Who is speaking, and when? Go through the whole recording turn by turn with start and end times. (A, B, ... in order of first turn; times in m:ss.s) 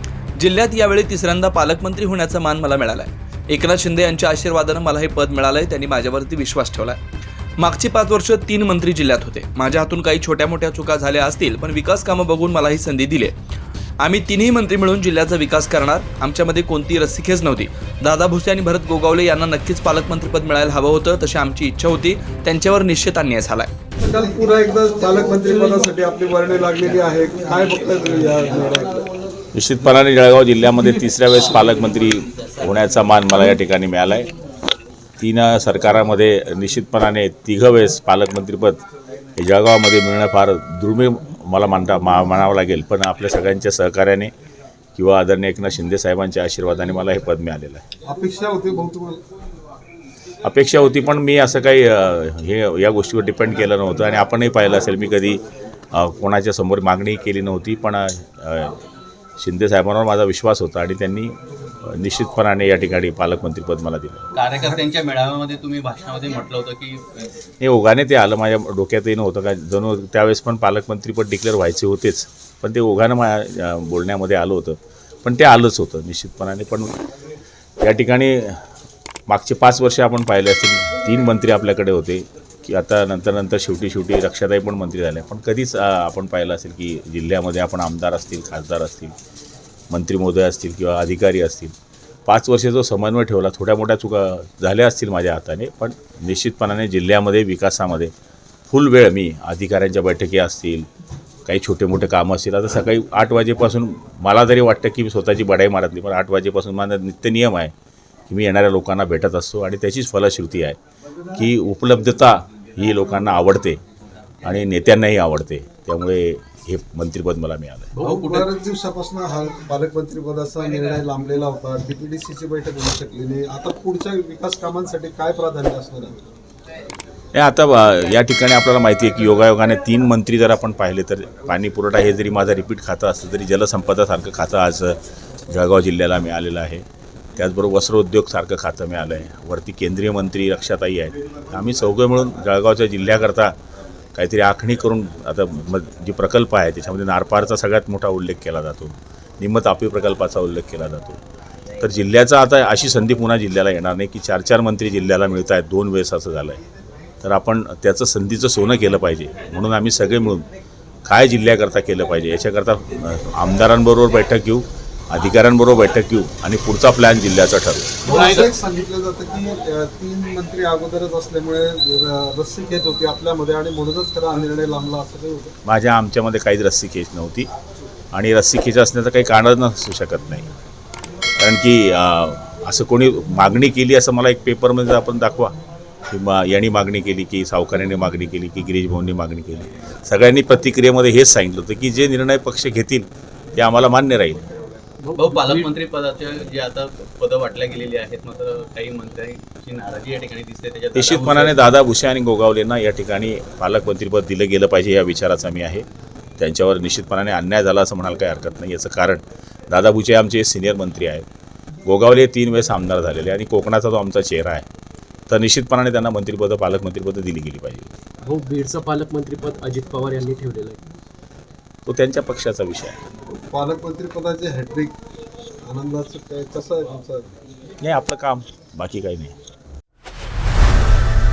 0:00.4-0:07.0 A
0:07.6-0:13.3 A
0:14.0-0:23.7 A
0:24.0-0:29.0 B
0:29.5-0:34.3 C
0:35.2-0:38.8 C
0:39.4-0:44.3 C
0:45.0-0:47.8 C
0:48.0-0:49.2 B
0:50.4-0:55.4 C
0:55.9-0:58.8 C
0:59.4-1:04.3 C
1:04.4-1:07.3 D
1:07.6-1:17.0 C
1:17.8-1:18.6 C
1:19.3-1:29.2 C
1:29.9-1:31.7 C
1:32.3-1:38.1 C
1:38.7-1:40.9 C
1:41.5-1:47.7 C
1:48.3-1:50.8 C
1:51.3-1:53.8 C
1:54.4-1:57.9 C
1:58.0-1:58.5 D
1:58.0-2:06.2 B
2:07.3-2:16.8 C
2:17.4-2:23.6 C
2:24.2-2:31.2 C
2:31.8-2:36.6 C
2:37.2-2:40.5 C
2:41.1-2:48.0 C
2:48.0-2:55.6 B
2:48.1-2:48.5 D
2:55.6-2:57.5 C
2:58.1-3:00.5 C
3:01.4-3:05.6 C
3:06.1-3:14.5 C
3:15.0-3:15.7 E
3:15.2-3:21.7 D
3:21.0-3:25.8 C
3:26.4-3:31.2 C
3:31.9-3:34.7 C
3:35.3-3:37.9 C
3:38.2-3:40.8 E
3:41.9-3:43.0 C
3:43.5-3:44.9 B
3:45.6-3:47.3 B
3:47.8-3:49.4 C